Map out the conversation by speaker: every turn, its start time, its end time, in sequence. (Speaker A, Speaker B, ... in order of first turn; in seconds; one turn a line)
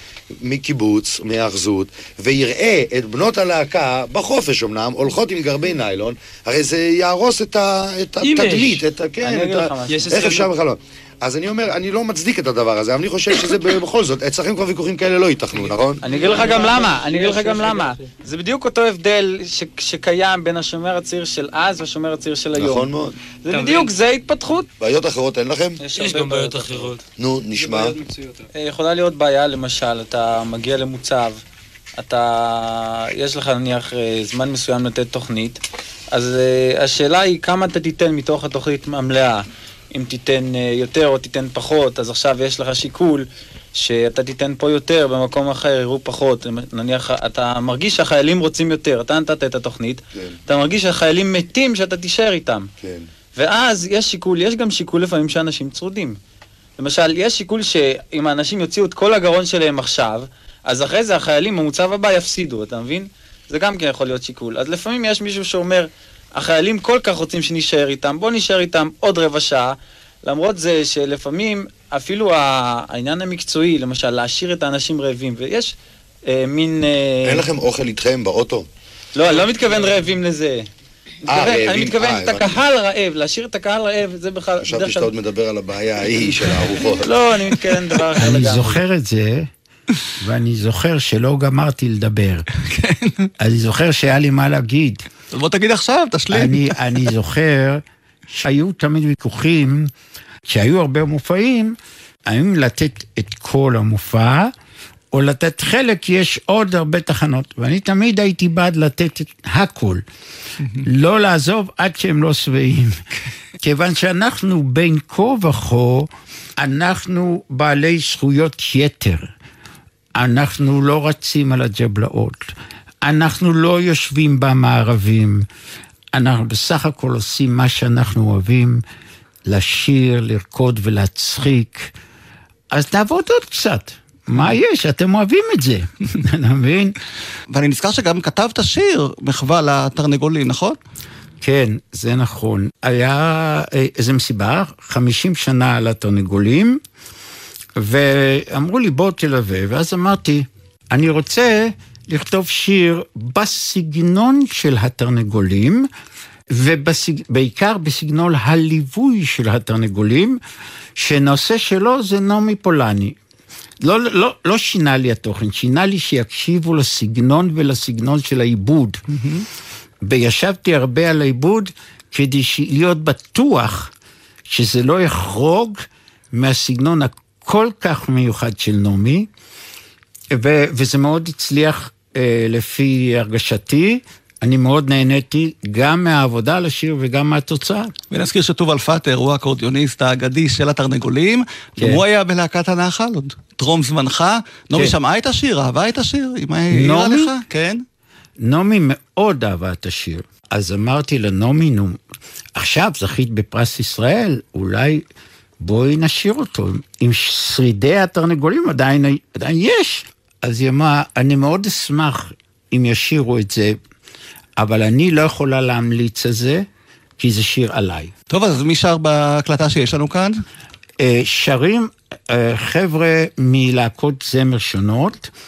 Speaker A: 0.4-16.3
Speaker B: 9.2-10.2
Speaker B: 16.0-24.7
Speaker A: 22.6-23.2
Speaker A: 24.8-25.8
Speaker B: 25.8-27.0
Speaker A: 27.2-28.0
Speaker B: 27.6-31.4
Speaker B: 32.0-35.6
Speaker B: 36.1-52.7
Speaker A: 52.8-53.1
Speaker B: 53.4-56.2
Speaker B: 56.8-75.7
Speaker B: 76.3-77.4
Speaker A: 77.3-78.7
Speaker B: 79.2-80.7
Speaker A: 81.3-82.6
Speaker B: 81.3-85.1
Speaker A: 84.6-87.2
Speaker B: 87.0-88.8
Speaker C: 88.2-89.5
Speaker C: 90.2-92.5
Speaker D: 92.6-93.3
Speaker C: 93.4-95.0
Speaker D: 95.3-97.1
Speaker C: 96.3-99.9
Speaker C: 100.5-104.5
Speaker C: 105.1-110.0
Speaker C: 110.8-113.0
Speaker C: 113.6-119.3
Speaker C: 120.2-125.5
Speaker C: 126.1-128.8
Speaker C: 129.4-131.9
Speaker C: 132.7-136.9
Speaker D: 137.5-140.8
Speaker C: 141.4-146.8
Speaker C: 147.8-155.9
Speaker C: 156.5-160.4
Speaker C: 160.9-163.2
Speaker C: 163.8-169.0
Speaker D: 169.1-169.5
Speaker C: 170.0-173.9
Speaker C: 174.5-179.3
Speaker C: 180.3-187.9
Speaker D: 188.1-197.8
Speaker C: 196.7-197.4
Speaker C: 198.4-202.0
Speaker C: 202.6-205.0
Speaker C: 205.6-213.8
Speaker C: 214.6-216.7
Speaker C: 217.2-218.1
Speaker D: 218.3-220.4
Speaker C: 221.0-225.3